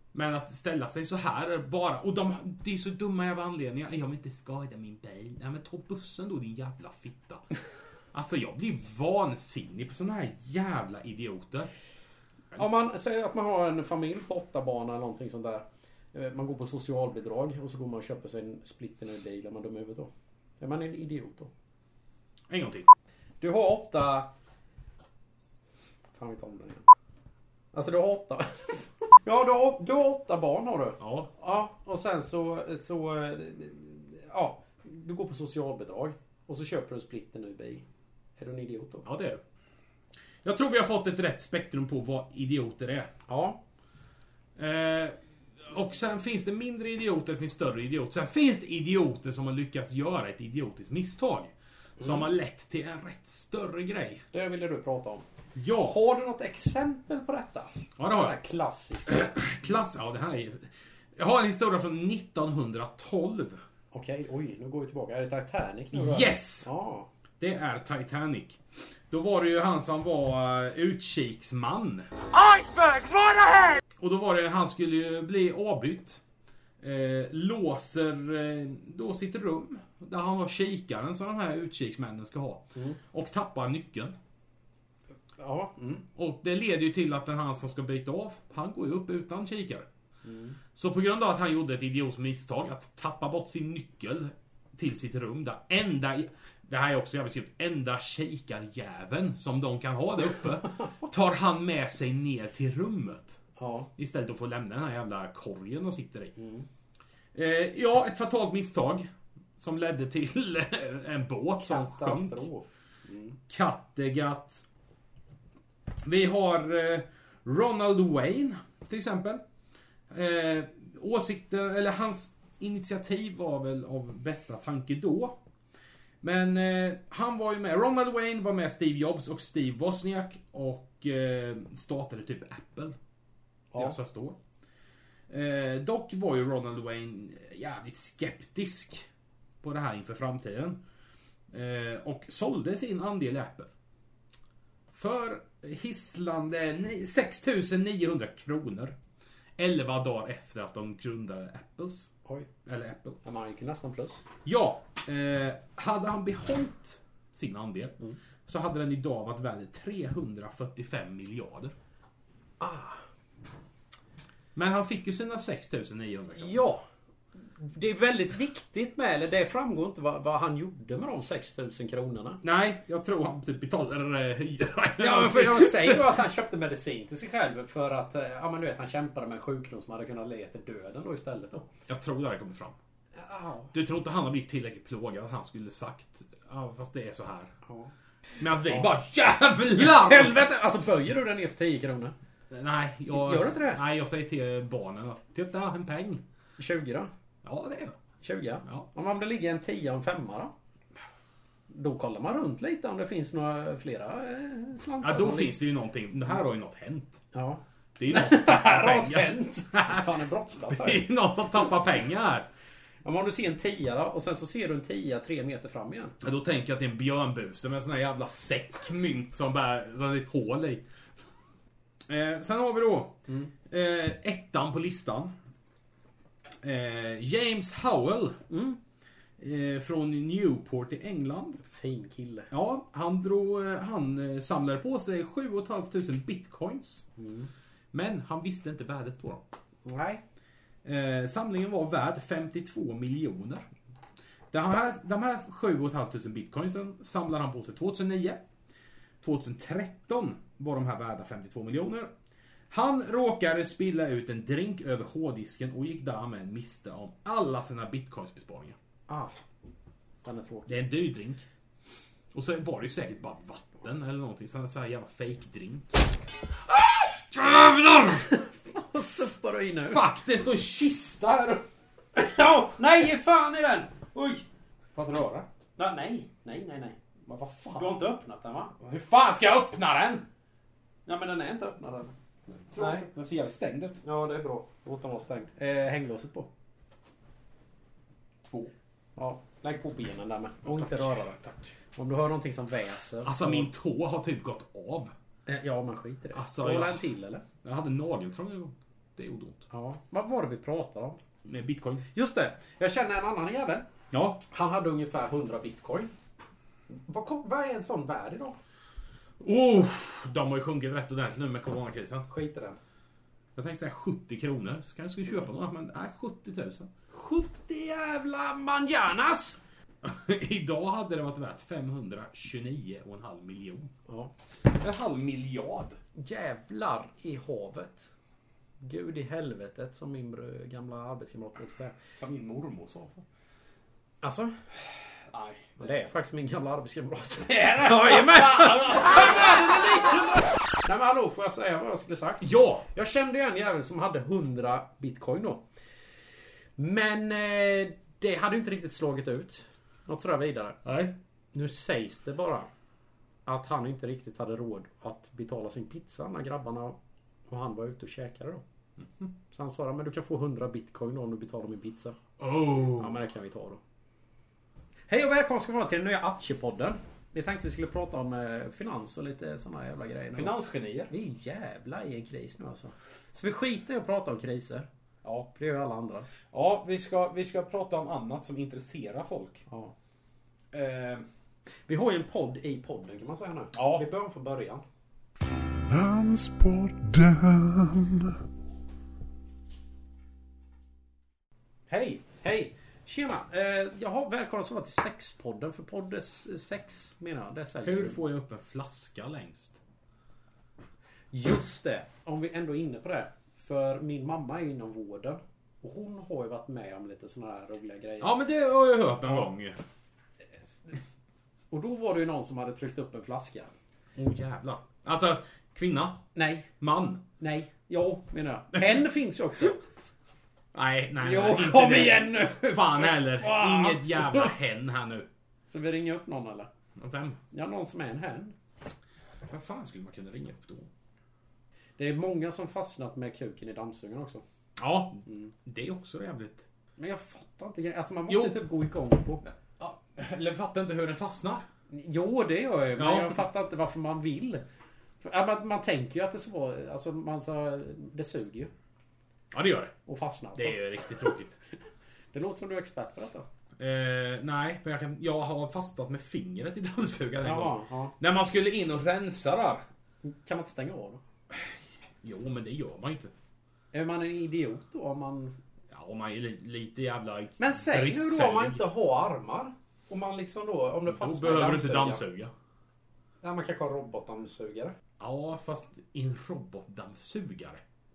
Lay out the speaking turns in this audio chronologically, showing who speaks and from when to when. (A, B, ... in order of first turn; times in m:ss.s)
0:00.1-0:07.4 A
0:08.1-0:11.7 A
0:12.6-0:21.5 B
0:22.5-0:22.9 A
0:23.4-0:24.3 B
0:26.1-0:26.8 B
0:27.7-0:37.8 B
0:31.0-0:31.3 A
0:38.4-0:39.0 B
0:39.0-0:39.4 A
0:40.4-0:43.1 A
0:43.3-0:43.6 B
0:44.6-0:54.2 A
0:54.3-0:55.2 B
0:55.6-0:56.0 A
0:55.8-0:59.4 B
0:58.0-0:58.4 A
0:59.1-1:03.6 A
1:03.9-1:07.1 B
1:05.9-1:06.7 A
1:07.4-1:08.6 A
1:09.1-1:12.1 A
1:12.3-1:13.7 B
1:14.0-1:16.2 A
1:16.8-1:24.2 A
1:25.4-1:26.1 B
1:26.2-1:29.9 A
1:30.2-1:30.6 B
1:30.8-1:43.4 A
1:43.6-1:43.9 B
1:44.0-1:46.3 A
1:46.4-1:46.7 B
1:47.4-1:52.5 A
1:51.6-1:53.4 B
1:53.5-1:54.6 A
1:56.0-1:59.4 A
2:00.1-2:05.4 A
2:06.2-2:13.0 A
2:13.8-2:14.4 A
2:15.3-2:19.1 A
2:19.6-2:20.8 A
2:21.5-2:23.7 A
2:24.9-2:29.0 A
2:29.6-2:32.1 A
2:32.7-2:33.2 A
2:33.2-2:34.2 B
2:34.4-2:41.8 A
2:42.6-2:43.0 B
2:44.6-2:46.6 A
2:46.3-2:46.8 B
2:47.6-2:52.4 B
2:52.4-2:56.2 A
2:55.0-3:01.7 B
3:01.9-3:02.8 A
3:03.2-3:03.7 B
3:03.7-3:07.5 A
3:07.7-3:07.9 B
3:08.4-3:10.5 A
3:08.6-3:08.9 B
3:09.8-3:12.1 B
3:12.5-3:16.2 A
3:13.1-3:13.8 B
3:16.6-3:17.1 B
3:17.4-3:18.0 A
3:18.2-3:20.5 B
3:21.7-3:25.6 B
3:25.0-3:27.2 A
3:27.3-3:31.1 B
3:28.0-3:32.5 A
3:33.0-3:36.2 B
3:36.2-3:40.8 A
3:42.1-3:43.2 A
3:43.7-3:45.3 A
3:46.6-3:48.4 A
3:48.5-3:48.8 B
3:49.4-3:51.6 A
3:51.6-3:52.5 B
3:52.5-3:57.1 A
3:57.2-3:57.5 B
3:57.9-3:59.4 A
3:59.8-4:00.2 B
4:00.8-4:03.7 A
4:04.5-4:08.4 A
4:09.2-4:12.1 A
4:12.7-4:18.8 A
4:19.1-4:19.4 B
4:20.2-4:20.8 B
4:20.7-4:21.4 A
4:22.3-4:26.1 A
4:27.0-4:28.3 A
4:28.2-4:30.0 B
4:29.9-4:31.6 A
4:32.2-4:34.4 B
4:35.0-4:35.5 A
4:35.8-4:37.0 B
4:37.3-4:38.0 A
4:37.8-4:38.7 B
4:38.8-4:40.3 A
4:41.1-4:42.1 B
4:42.5-4:44.0 A
4:42.8-4:43.1 B
4:44.0-4:46.5 B
4:48.4-4:48.7 A
4:49.2-4:51.4 B
4:50.6-4:51.7 A
4:52.0-4:53.7 B
4:53.2-4:55.1 A
4:55.5-4:57.4 B
4:56.3-4:57.0 A
4:57.6-4:59.7 A
4:59.7-5:01.2 B
5:01.4-5:02.0 A
5:02.1-5:03.9 B
5:04.1-5:04.4 A
5:04.5-5:06.1 B
5:06.9-5:08.6 B
5:09.4-5:12.3 A
5:12.3-5:12.8 B
5:13.6-5:16.9 A
5:17.1-5:19.6 B
5:20.0-5:23.9 A
5:24.7-5:26.0 A
5:26.2-5:28.1 B
5:28.8-5:32.0 B
5:32.2-5:33.2 A
5:34.2-5:34.6 B
5:35.3-5:36.1 A
5:35.8-5:45.6 B
5:37.4-5:40.0 A
5:42.4-5:42.9 A
5:46.8-5:50.8 B
5:50.8-5:51.2 A
5:51.5-5:52.7 B
5:53.5-5:58.6 B
5:59.0-5:59.3 A
5:59.5-6:02.2 B
6:02.4-6:03.2 A
6:02.9-6:03.8 B
6:05.1-6:10.6 B
6:10.3-6:11.1 A
6:11.1-6:14.9 B
6:15.2-6:15.5 A
6:15.6-6:16.3 B
6:16.5-6:19.6 A
6:19.7-6:19.9 B
6:20.7-6:21.3 A
6:21.9-6:24.8 B
6:23.8-6:24.1 A
6:25.9-6:28.3 C
6:31.9-6:32.2 A
6:32.4-6:38.2 B
6:37.8-6:39.8 A
6:41.3-6:48.3 B
6:48.2-6:49.8 A
6:51.7-6:53.7 B
6:54.2-6:56.2 A
6:56.4-6:56.7 B
6:56.8-6:57.2 A
6:57.4-6:59.8 B
6:58.8-6:59.0 A
7:00.7-7:05.3 A
7:01.2-7:04.5 B
7:05.7-7:06.7 B
7:07.0-7:07.4 A
7:07.5-7:08.6 B
7:09.5-7:10.9 A
7:12.0-7:14.4 B
7:14.8-7:16.7 A
7:17.0-7:19.4 B
7:18.3-7:18.6 A
7:19.4-7:21.7 A
7:21.9-7:24.6 B
7:23.0-7:23.5 A
7:25.2-7:28.7 B
7:29.5-7:29.9 A
7:30.1-7:31.3 B
7:30.6-7:31.6 A
7:32.3-7:33.5 B
7:33.8-7:39.8 A
7:37.4-7:38.1 B
7:40.2-7:41.2 B
7:41.5-7:43.3 A
7:43.9-7:45.6 B
7:45.9-7:48.9 A
7:47.6-7:52.2 B
7:51.1-7:52.5 A
7:53.4-7:54.9 B
7:55.2-7:57.8 A